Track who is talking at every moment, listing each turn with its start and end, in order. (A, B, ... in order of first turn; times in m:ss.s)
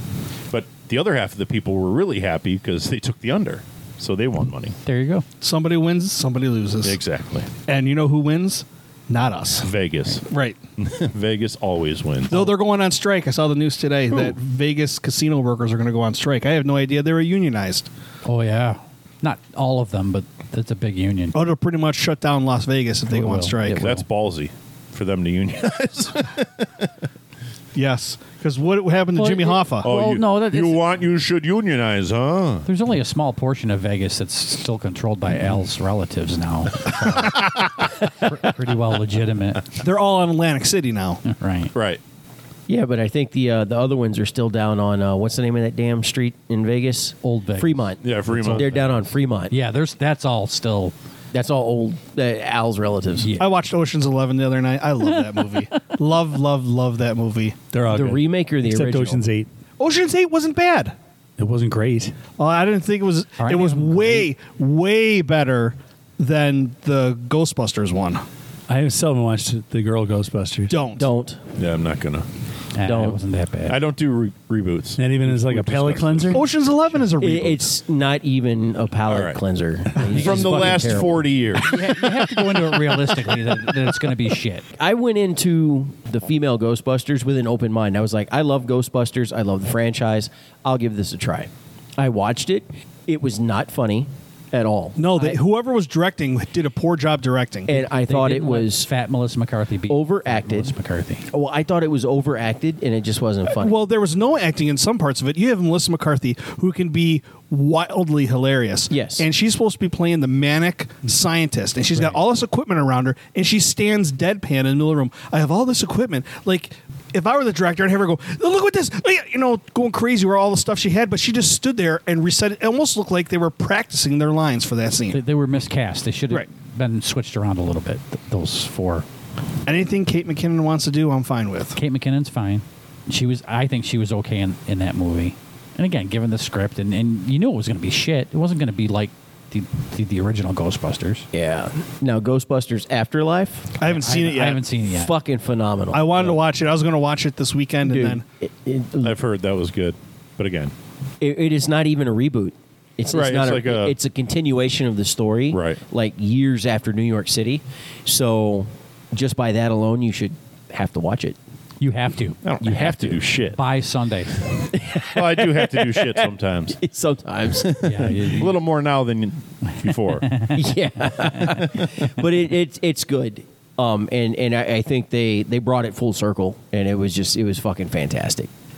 0:00.5-0:04.8 A
0:04.8-0:05.2 B
0:05.4-0:07.0 C
0:06.8-0:07.5 A
0:07.7-0:09.7 C
0:09.6-0:10.2 A
0:10.2-0:10.6 C
0:10.8-0:12.5 A
0:12.3-0:17.9 C
0:18.2-0:21.4 B
0:21.3-0:23.8 C
0:23.1-0:24.0 B
0:23.7-0:26.9 A
0:27.7-0:29.9 C
0:29.1-0:31.0 B
0:29.8-0:32.7 A
0:32.6-0:39.6 B
0:39.8-0:41.2 C
0:41.2-0:41.7 B
0:41.7-0:42.0 A
0:42.7-0:49.5 D
0:47.2-0:50.9 B
0:48.0-0:48.7 A
0:51.3-0:53.3 D
0:53.2-0:53.5 B
0:53.4-0:57.7 C
0:57.7-0:59.5 E
0:57.9-0:59.2 D
0:59.8-1:00.9 C
1:01.4-1:02.2 E
1:02.4-1:08.2 C
1:03.4-1:04.3 B
1:08.7-1:10.7 E
1:10.7-1:11.1 C
1:11.0-1:11.4 D
1:11.6-1:12.3 A
1:12.7-1:13.8 B
1:12.8-1:13.2 D
1:13.7-1:16.4 A
1:15.0-1:16.4 E
1:16.3-1:17.7 C
1:17.2-1:21.2 D
1:19.1-1:19.4 A
1:20.0-1:21.7 A
1:21.6-1:24.6 B
1:24.7-1:35.4 D
1:35.0-1:37.8 C
1:37.7-1:38.9 D
1:37.8-1:41.3 B
1:39.9-1:40.7 D
1:41.3-1:43.8 D
1:43.5-2:05.2 C
1:48.9-1:49.3 D
2:05.1-2:09.0 B
2:09.6-2:11.8 C
2:11.8-2:21.3 B
2:21.3-2:23.7 D
2:23.8-2:24.6 C
2:23.8-2:25.1 B
2:24.8-2:26.2 D
2:25.9-2:28.2 C
2:27.8-2:29.1 D
2:29.0-2:30.7 A
2:31.2-2:41.4 D
2:33.1-2:33.9 A
2:35.5-2:35.8 A
2:41.8-2:44.5 B
2:42.4-2:43.6 A
2:44.7-2:48.4 D
2:45.1-2:46.8 A
2:47.7-2:50.3 A
2:47.8-2:48.5 B
2:50.1-2:50.6 B
2:50.5-2:58.5 D